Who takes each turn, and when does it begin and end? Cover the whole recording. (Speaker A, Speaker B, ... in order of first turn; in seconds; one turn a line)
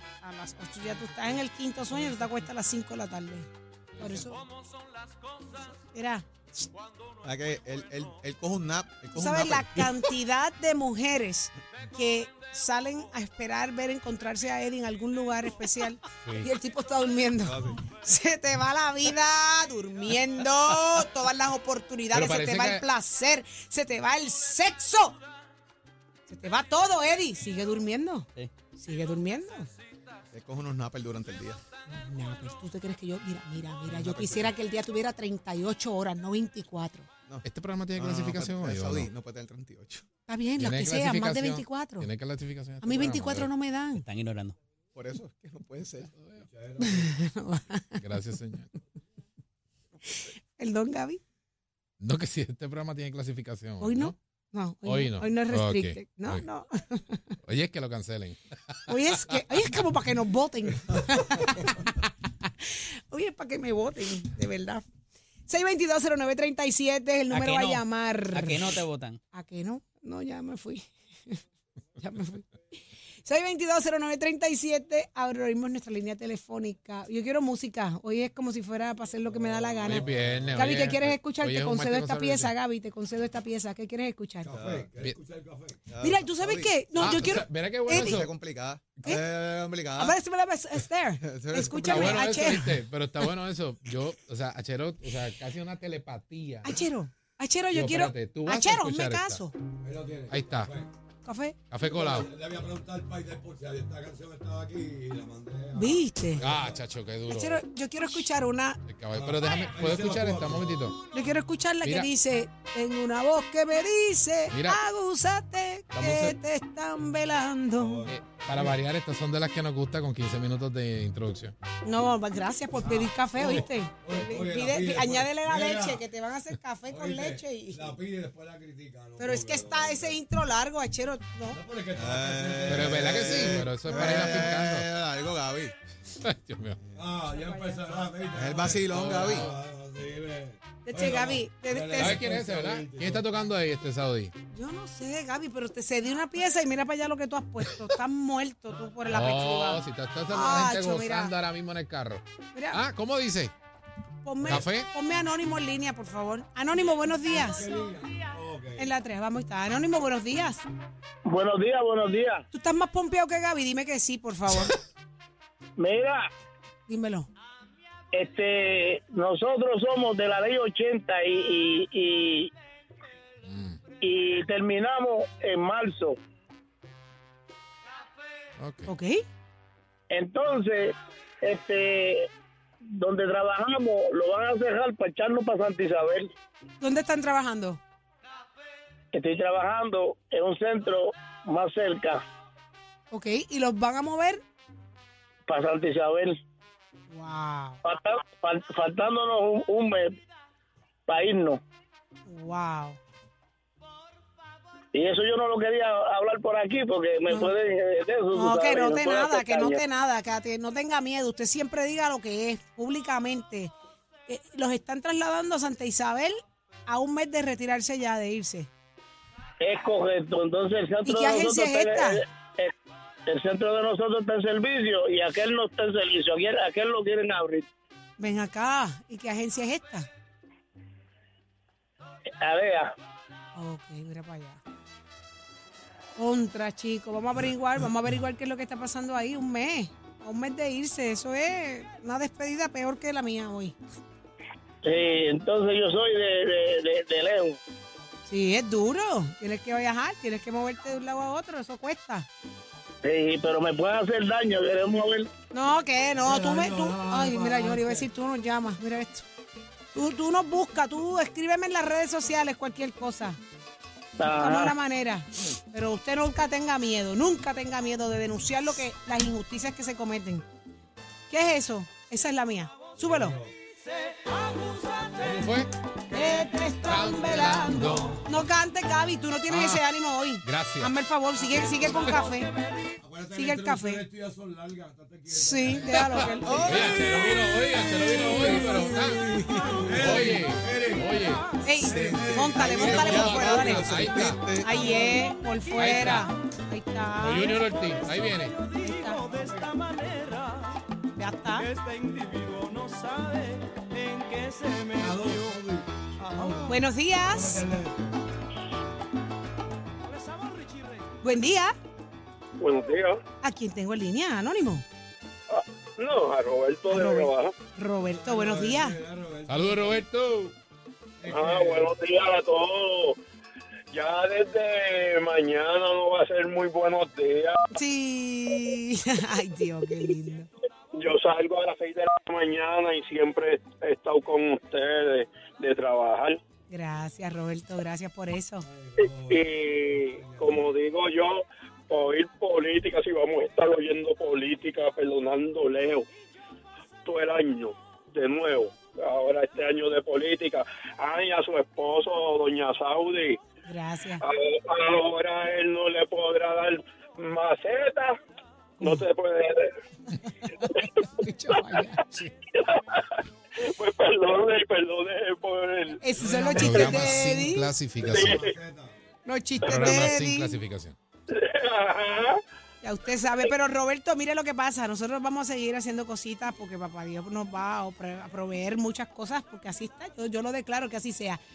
Speaker A: 0.2-4.5
Speaker A: 5.9-6.3
Speaker B: 7.2-9.9
Speaker A: 9.1-25.2
Speaker B: 17.4-17.8
Speaker C: 22.1-22.9
Speaker A: 26.3-29.7
Speaker B: 30.3-31.6
Speaker A: 31.9-37.1
Speaker B: 33.9-34.5
Speaker B: 37.3-40.0
Speaker C: 37.4-39.1
Speaker A: 40.3-42.1
Speaker C: 40.6-43.5
Speaker A: 42.8-44.0
Speaker D: 44.0-44.6
Speaker B: 44.9-46.1
Speaker C: 46.1-46.4
Speaker E: 46.4-47.1
Speaker A: 46.8-48.0
Speaker C: 48.0-48.7
Speaker A: 50.1-51.2
Speaker C: 52.0-54.1
Speaker A: 53.8-57.3
Speaker C: 54.9-56.5
Speaker C: 57.5-59.4
Speaker A: 58.9-64.8
Speaker A: 65.5-68.8
Speaker D: 67.3-69.2
Speaker A: 69.3-71.4
Speaker A: 72.0-84.5
Speaker E: 79.3-80.3
Speaker C: 79.8-82.5
Speaker B: 80.0-80.7
Speaker E: 84.4-85.8
Speaker B: 84.5-84.9
Speaker B: 85.9-87.3
Speaker A: 86.0-88.2
Speaker C: 87.0-88.3
Speaker B: 87.9-90.2
Speaker A: 90.0-92.8
Speaker B: 91.2-92.3
Speaker C: 91.8-96.8
Speaker A: 96.6-99.5
Speaker C: 97.7-99.5
Speaker E: 99.8-100.9
Speaker C: 100.3-100.7
Speaker A: 101.2-101.6
Speaker C: 101.7-102.3
Speaker E: 101.8-106.8
Speaker A: 105.8-106.4
Speaker C: 106.4-107.6
Speaker A: 107.3-108.8
Speaker C: 108.9-111.0
Speaker E: 109.1-110.9
Speaker A: 111.1-118.0
Speaker C: 111.8-112.1
Speaker C: 114.5-114.8
Speaker C: 115.9-116.4
Speaker E: 117.8-118.8
Speaker C: 118.1-121.5
Speaker A: 121.8-128.0
Speaker E: 122.8-126.0
Speaker E: 126.9-130.2
Speaker A: 129.2-131.6
Speaker E: 131.5-134.5
Speaker B: 131.9-135.8
Speaker C: 132.7-134.9
Speaker C: 136.2-136.8
Speaker E: 136.9-143.3
Speaker A: 137.3-137.8
Speaker B: 138.3-139.5
Speaker C: 138.9-139.5
Speaker A: 140.8-142.2
Speaker C: 142.0-144.3
Speaker A: 144.5-151.3
Speaker C: 149.1-153.5
Speaker A: 154.2-157.7
Speaker C: 154.4-154.9
Speaker E: 157.3-158.9
Speaker A: 158.8-160.6
Speaker F: 161.3-162.4
Speaker A: 162.5-164.8
Speaker F: 165.8-166.3
Speaker A: 166.9-167.3
Speaker F: 168.1-172.5
Speaker C: 173.4-173.8
Speaker F: 174.0-176.2
Speaker C: 178.6-178.9
Speaker A: 178.9-179.2
Speaker F: 180.1-182.3
Speaker F: 182.9-186.3
Speaker A: 186.8-187.8
Speaker F: 189.1-192.2
Speaker A: 193.1-194.4
Speaker F: 195.5-196.4
Speaker A: 197.1-197.8
Speaker F: 197.8-200.2
Speaker F: 201.1-201.6
Speaker A: 202.3-203.0
Speaker F: 204.9-209.8
Speaker A: 208.3-213.7
Speaker A: 214.3-218.7
Speaker F: 219.6-222.7
Speaker A: 221.1-222.2
Speaker F: 223.3-227.7
Speaker A: 228.2-230.1
Speaker F: 232.4-232.9
Speaker A: 233.6-234.6
Speaker A: 236.2-243.8
Speaker F: 244.8-247.6
Speaker A: 248.3-252.3
Speaker F: 253.0-255.3
Speaker A: 255.5-259.3
Speaker E: 256.2-258.1
Speaker A: 259.9-263.4
Speaker F: 264.2-264.8
Speaker A: 264.3-270.5
Speaker A: 271.3-273.4
Speaker E: 273.0-273.5
Speaker E: 275.2-275.5
Speaker C: 275.2-275.7
Speaker A: 276.1-282.5
Speaker C: 276.8-278.2
Speaker E: 277.8-278.1
Speaker C: 279.5-279.8
Speaker C: 280.4-280.9
Speaker E: 283.0-291.2
Speaker A: 283.3-284.0
Speaker A: 285.3-286.7
Speaker C: 286.0-289.4
Speaker B: 286.4-287.3
Speaker B: 288.4-289.9
Speaker C: 289.9-291.5
Speaker A: 291.6-294.0
Speaker E: 291.8-293.3
Speaker B: 291.8-294.8
Speaker C: 292.6-294.5
Speaker A: 294.6-297.6
Speaker C: 295.8-296.3
Speaker C: 297.2-298.6
Speaker A: 298.7-299.2
Speaker E: 299.3-299.8
Speaker A: 301.1-301.7
Speaker E: 304.9-308.0
Speaker A: 306.7-307.6
Speaker A: 311.2-311.8
Speaker G: 312.6-313.2
Speaker A: 313.4-314.9
Speaker G: 315.5-317.5
Speaker A: 316.9-319.0
Speaker E: 318.0-320.0
Speaker C: 319.5-320.5
Speaker E: 321.2-322.0
Speaker G: 321.3-323.2
Speaker G: 323.9-327.6
Speaker A: 327.7-330.5
Speaker G: 330.9-336.4
Speaker A: 336.7-338.7
Speaker E: 338.6-340.7
Speaker G: 339.0-346.1
Speaker G: 347.1-353.4
Speaker A: 353.7-354.2
Speaker G: 354.2-358.2
Speaker G: 358.8-359.7
Speaker A: 360.6-362.2
Speaker G: 360.7-361.1
Speaker G: 362.5-363.1
Speaker G: 363.6-366.0
Speaker A: 366.0-367.7
Speaker E: 366.2-368.9
Speaker C: 366.5-368.4
Speaker G: 368.1-368.6
Speaker A: 369.3-370.6
Speaker C: 369.6-371.0
Speaker G: 369.7-369.9
Speaker G: 371.3-372.4
Speaker A: 372.8-381.4